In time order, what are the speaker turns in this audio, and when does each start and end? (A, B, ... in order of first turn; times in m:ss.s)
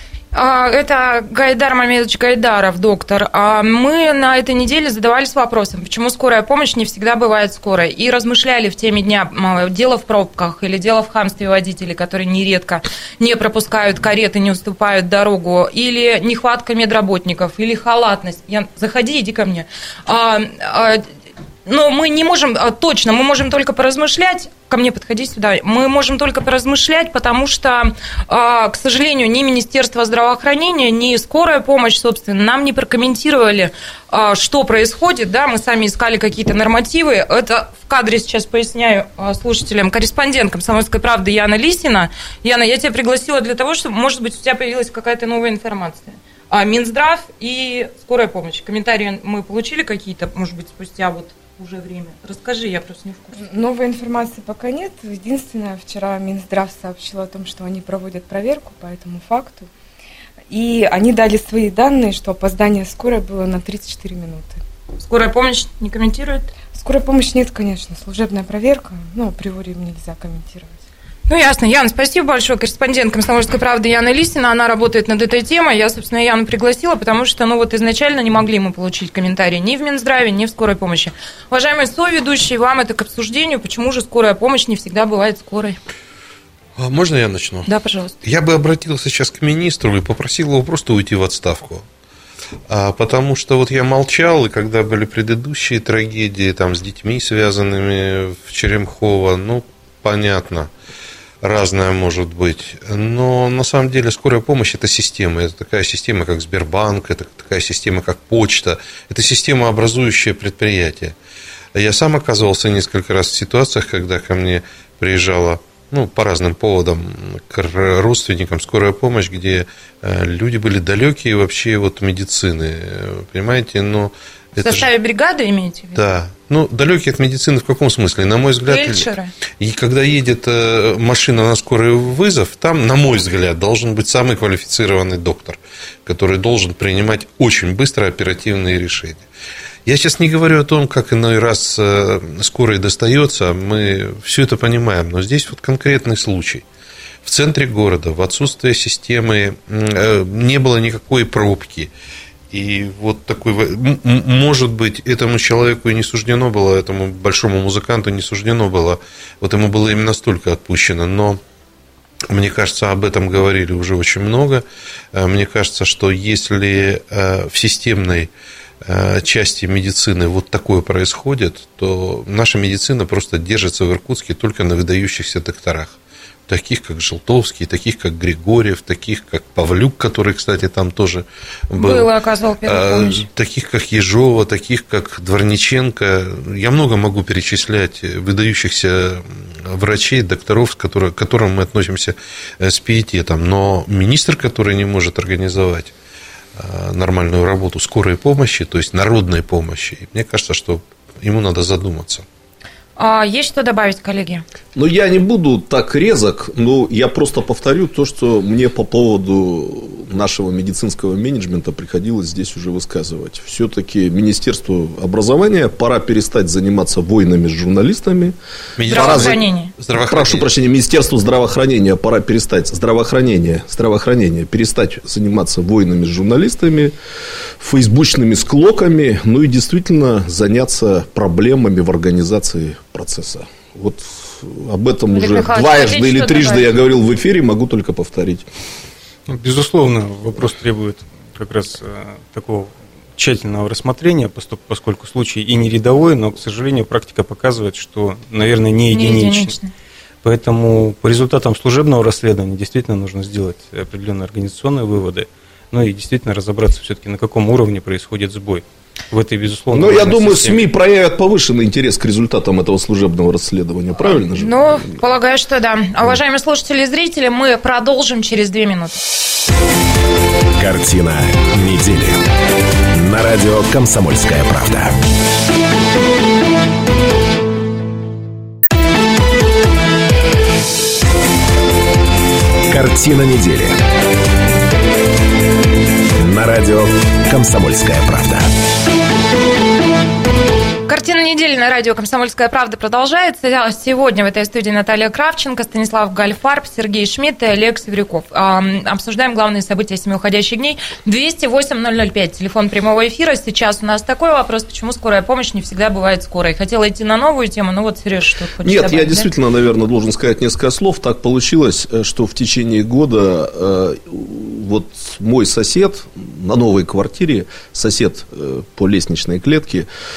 0:00.3-0:21.0 A
0:21.6-0:53.4 A
0:53.4-0:59.6 B
1:00.5-1:04.6 B
1:05.0-1:06.5 A
1:06.7-1:10.7 B
1:11.3-1:25.8 A
1:26.8-1:27.7 C
1:27.7-1:28.2 A
1:28.2-1:31.8 C
1:32.7-1:40.7 C
1:41.4-1:51.1 C
1:51.7-2:04.9 C
2:04.6-2:06.0 A
2:05.9-2:09.0 C
2:08.7-2:09.3 A
2:09.6-2:19.2 C
2:19.8-2:26.6 C
2:27.2-2:31.9 C
2:32.5-2:41.4 C
2:42.3-2:48.3 C
2:48.8-2:56.0 C
2:56.5-3:02.1 C
3:01.8-3:03.2 A
3:02.6-3:15.9 C
3:16.6-3:22.2 C
3:23.0-3:24.4 A
3:24.8-3:38.3 D
3:38.8-3:40.5 C
3:38.9-3:39.4 D
3:38.9-3:39.7 A
3:40.0-3:46.9 D
3:47.6-3:58.4 D
3:55.1-3:56.7 A
3:59.3-4:09.5 E
4:08.9-4:09.7 A
4:10.2-4:20.7 E
4:19.7-4:25.0 D
4:24.0-4:29.0 A
4:30.6-4:32.2 F
4:32.9-4:35.0 F
4:42.7-4:43.8 F
4:46.2-4:48.5 F
4:50.9-5:09.3 A
5:08.6-5:19.9 D